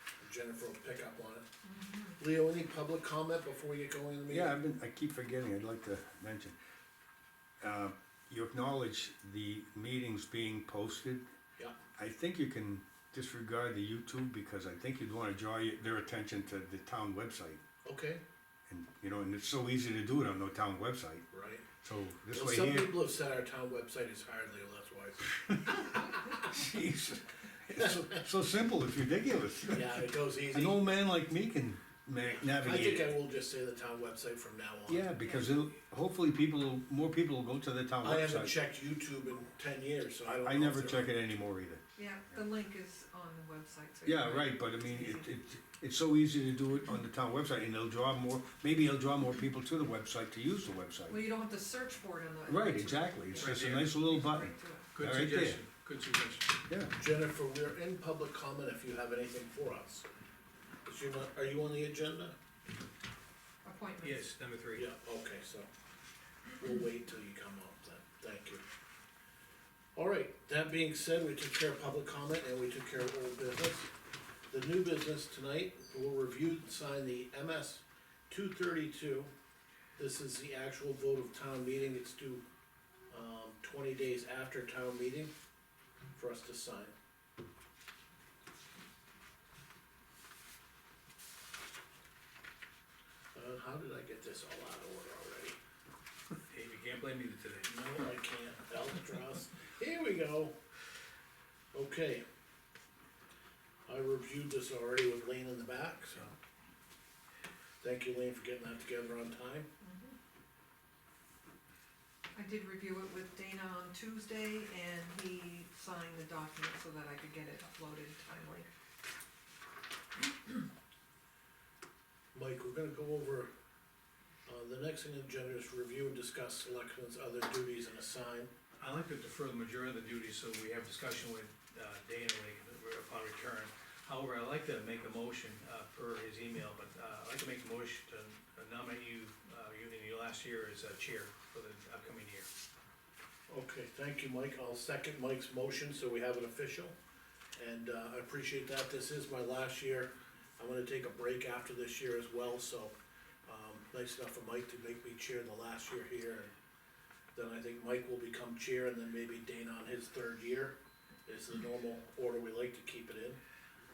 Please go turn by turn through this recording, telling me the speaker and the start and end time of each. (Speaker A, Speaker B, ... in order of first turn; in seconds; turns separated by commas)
Speaker A: 0.2-1.5, Speaker B: 1.6-2.2, Speaker A: 2.2-4.6, Speaker C: 4.3-6.5, Speaker C: 7.6-11.2, Speaker C: 12.0-17.6, Speaker A: 17.9-18.2, Speaker C: 18.7-21.2, Speaker A: 21.3-21.7, Speaker C: 21.8-23.0, Speaker A: 22.3-26.1, Speaker C: 25.7-33.2, Speaker A: 27.8-28.1, Speaker A: 29.7-30.9, Speaker A: 32.2-35.1, Speaker C: 34.9-38.5, Speaker B: 35.2-35.6, Speaker A: 38.0-41.1, Speaker C: 40.3-41.8, Speaker B: 42.0-45.3, Speaker C: 44.0-51.2, Speaker B: 51.1-54.9, Speaker C: 52.5-55.6, Speaker D: 53.4-53.9, Speaker D: 54.9-56.6, Speaker C: 56.7-57.0, Speaker A: 57.0-60.1, Speaker A: 60.9-62.4, Speaker B: 63.6-64.3, Speaker D: 64.0-64.8, Speaker A: 64.8-65.7, Speaker A: 66.6-68.6, Speaker A: 70.0-73.9, Speaker A: 74.5-79.3, Speaker A: 80.0-82.4, Speaker A: 83.1-85.3, Speaker A: 86.2-86.9, Speaker A: 93.3-95.6, Speaker D: 96.5-97.7, Speaker A: 97.7-100.5, Speaker A: 101.7-102.2, Speaker A: 103.9-106.3, Speaker A: 107.8-109.7, Speaker B: 109.8-110.2, Speaker B: 112.3-118.7, Speaker A: 122.3-123.5, Speaker A: 124.5-128.5, Speaker D: 128.8-142.5, Speaker A: 143.5-146.9, Speaker A: 147.6-152.9, Speaker A: 153.5-156.5, Speaker A: 157.3-163.4